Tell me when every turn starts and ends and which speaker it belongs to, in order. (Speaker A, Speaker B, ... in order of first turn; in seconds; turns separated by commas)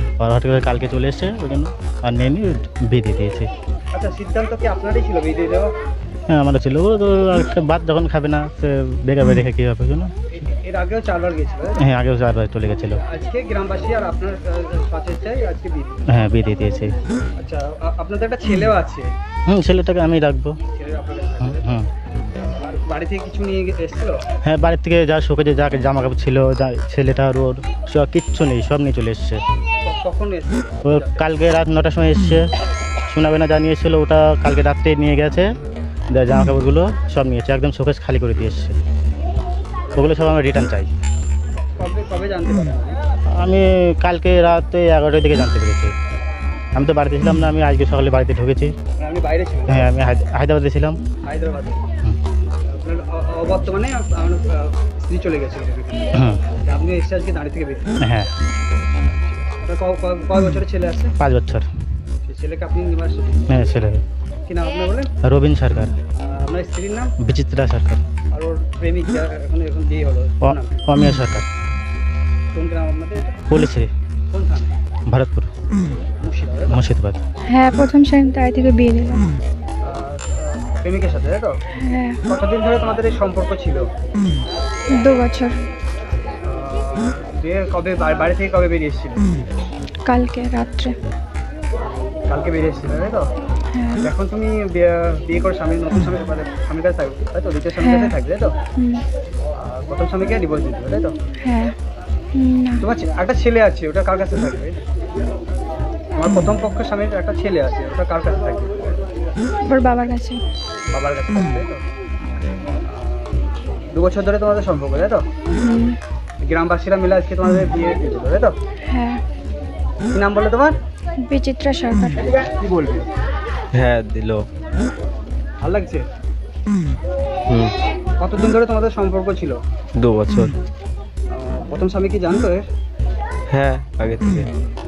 Speaker A: 0.2-3.5, Speaker B: 3.9-5.7, Speaker A: 6.3-10.1, Speaker B: 10.3-11.8, Speaker A: 11.8-13.0, Speaker B: 13.1-16.1, Speaker A: 16.1-16.9, Speaker B: 17.4-19.1, Speaker A: 19.5-20.6, Speaker B: 20.7-21.7, Speaker A: 21.4-21.9, Speaker B: 22.6-24.2, Speaker A: 24.4-29.4, Speaker B: 29.9-31.2, Speaker A: 30.9-32.5, Speaker A: 33.1-35.5, Speaker A: 36.1-38.8, Speaker A: 39.9-40.9, Speaker B: 41.8-43.0, Speaker A: 43.4-45.9, Speaker A: 46.8-48.7, Speaker B: 49.0-49.9, Speaker A: 49.7-51.0, Speaker B: 51.2-51.8, Speaker B: 52.7-57.9, Speaker A: 56.1-56.4, Speaker A: 58.0-58.3, Speaker B: 59.6-61.1, Speaker A: 61.2-61.7, Speaker B: 62.3-63.4, Speaker A: 63.5-64.0, Speaker B: 64.5-65.1, Speaker A: 65.2-65.9, Speaker B: 66.2-67.1, Speaker A: 67.2-68.0, Speaker B: 68.3-70.8, Speaker A: 70.4-71.5, Speaker B: 72.5-73.4, Speaker A: 73.5-73.9, Speaker B: 74.3-74.7, Speaker A: 75.1-75.5, Speaker B: 76.2-76.8, Speaker A: 76.7-77.2, Speaker C: 77.5-79.3, Speaker B: 79.8-81.6, Speaker C: 81.8-82.2, Speaker B: 82.3-83.9, Speaker C: 84.9-85.6, Speaker B: 86.5-89.3, Speaker C: 90.1-90.9, Speaker B: 92.3-93.2, Speaker C: 93.7-94.0, Speaker B: 94.0-98.5, Speaker C: 97.8-98.1, Speaker B: 99.6-101.2, Speaker C: 101.4-101.7, Speaker C: 102.3-102.8, Speaker B: 102.8-104.8, Speaker B: 106.2-109.0, Speaker C: 109.7-110.4, Speaker B: 110.9-111.8, Speaker B: 112.9-115.3, Speaker C: 115.6-116.0, Speaker B: 116.4-118.6, Speaker C: 118.9-119.2, Speaker B: 120.1-120.8, Speaker C: 121.2-122.3, Speaker B: 122.2-123.1, Speaker D: 123.7-124.5, Speaker B: 125.6-126.0, Speaker B: 128.2-129.6, Speaker D: 130.0-130.6, Speaker B: 131.3-132.7, Speaker D: 133.5-134.5